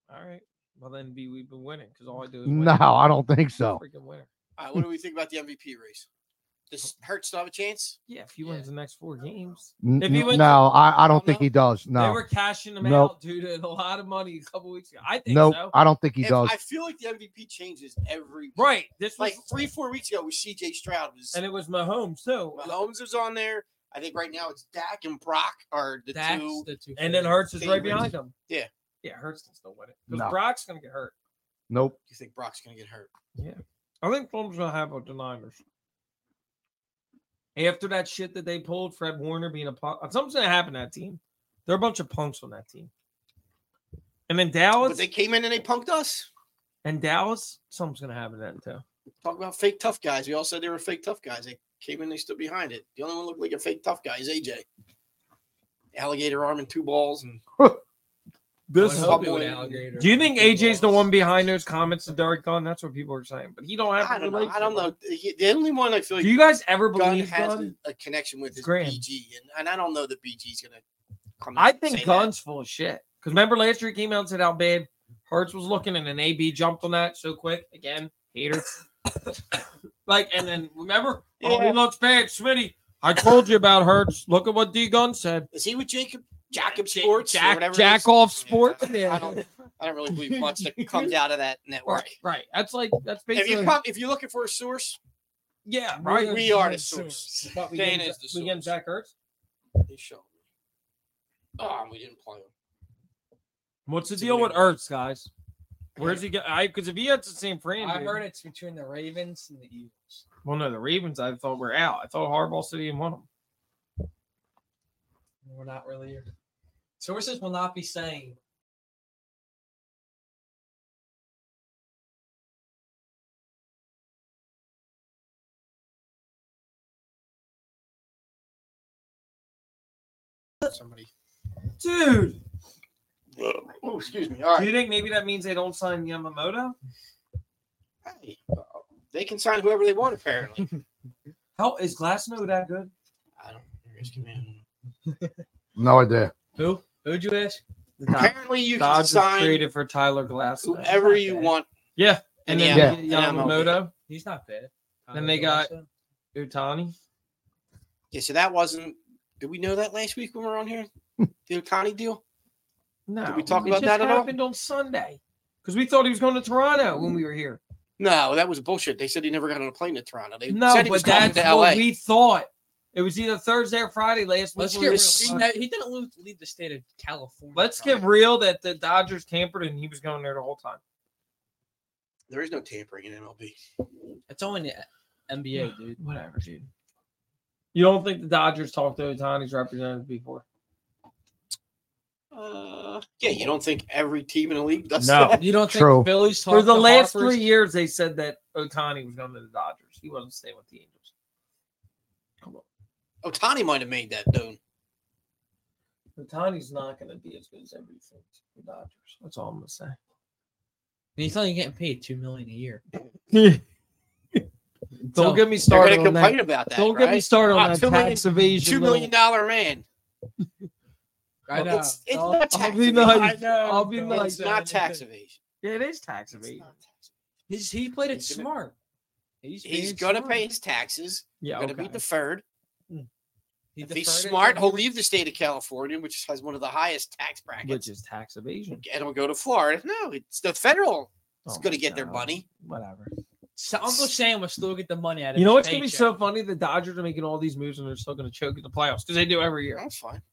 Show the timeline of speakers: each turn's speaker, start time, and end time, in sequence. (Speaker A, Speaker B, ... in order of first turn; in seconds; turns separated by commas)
Speaker A: 0.1-3.0, Speaker B: 2.5-3.8, Speaker A: 3.6-4.3, Speaker C: 4.6-6.1, Speaker C: 6.7-8.7, Speaker A: 8.1-10.6, Speaker B: 9.8-12.2, Speaker C: 10.2-11.5, Speaker A: 11.9-15.8, Speaker B: 12.8-13.1, Speaker B: 15.3-16.6, Speaker C: 16.2-21.4, Speaker A: 18.6-19.5, Speaker A: 21.3-22.9, Speaker C: 22.6-26.7, Speaker D: 26.1-27.5, Speaker A: 27.0-28.3, Speaker C: 27.6-28.7, Speaker A: 29.0-31.1, Speaker B: 30.1-30.4, Speaker B: 31.7-32.0, Speaker C: 32.1-33.1, Speaker A: 33.4-35.6, Speaker A: 37.6-42.9, Speaker A: 44.3-45.1, Speaker C: 44.8-46.3, Speaker A: 46.8-48.8, Speaker C: 49.2-54.7, Speaker C: 55.9-57.4, Speaker A: 58.7-64.9, Speaker D: 58.8-61.0, Speaker C: 58.9-59.8, Speaker C: 64.0-66.4, Speaker A: 66.2-67.7, Speaker C: 66.9-70.8, Speaker A: 68.6-69.0, Speaker C: 71.4-72.3, Speaker A: 71.6-78.8, Speaker A: 80.1-85.5, Speaker C: 81.4-81.8, Speaker C: 85.5-92.2, Speaker A: 86.6-89.5, Speaker A: 90.2-91.1, Speaker A: 91.9-93.8, Speaker C: 93.3-95.0, Speaker A: 95.7-96.8, Speaker C: 96.0-98.7, Speaker D: 96.4-98.2, Speaker A: 97.8-99.1, Speaker C: 99.8-100.4, Speaker C: 101.6-102.5, Speaker A: 103.9-105.3, Speaker C: 104.2-104.6, Speaker C: 106.0-106.2, Speaker A: 106.0-108.2, Speaker D: 107.8-110.2, Speaker A: 110.5-113.3, Speaker D: 115.5-116.3, Speaker D: 117.0-118.4, Speaker C: 130.6-131.1, Speaker A: 131.8-132.4, Speaker C: 133.4-134.7, Speaker A: 134.5-136.8, Speaker C: 138.1-140.8, Speaker A: 141.6-142.9, Speaker C: 143.4-144.6, Speaker B: 145.8-146.3, Speaker D: 146.6-147.6, Speaker A: 148.0-151.0, Speaker C: 148.1-149.7, Speaker C: 150.6-151.7, Speaker D: 150.8-151.5, Speaker A: 152.0-153.9, Speaker C: 152.5-153.8, Speaker B: 152.7-153.0, Speaker D: 154.1-155.9, Speaker A: 155.1-155.7, Speaker A: 156.3-156.9, Speaker C: 158.1-160.9, Speaker C: 161.5-162.2, Speaker A: 163.1-167.6, Speaker C: 163.2-164.3, Speaker C: 168.0-171.8, Speaker A: 170.5-175.5, Speaker D: 174.6-178.1, Speaker C: 174.9-175.5, Speaker A: 177.6-180.8, Speaker C: 182.3-183.6, Speaker D: 184.3-186.0, Speaker A: 185.6-186.7, Speaker A: 187.7-190.4, Speaker C: 192.3-195.5, Speaker B: 195.0-196.1, Speaker D: 195.4-197.5, Speaker A: 196.5-201.1, Speaker C: 203.2-204.6, Speaker A: 206.2-210.0, Speaker D: 211.2-212.8, Speaker A: 213.3-213.6, Speaker D: 215.0-215.5, Speaker A: 215.1-219.1, Speaker C: 215.7-219.9, Speaker D: 221.5-225.0, Speaker C: 221.5-223.5, Speaker A: 222.5-224.6, Speaker C: 224.0-225.4, Speaker A: 225.6-226.7, Speaker C: 226.3-227.1, Speaker D: 227.5-228.7, Speaker C: 228.1-228.5, Speaker D: 229.4-230.5, Speaker C: 229.6-232.4, Speaker A: 231.4-232.0, Speaker D: 233.8-234.9, Speaker C: 233.8-237.9, Speaker A: 237.6-238.8, Speaker C: 238.8-242.4, Speaker A: 241.5-243.1, Speaker D: 243.6-246.1, Speaker A: 245.3-249.8, Speaker C: 249.8-250.2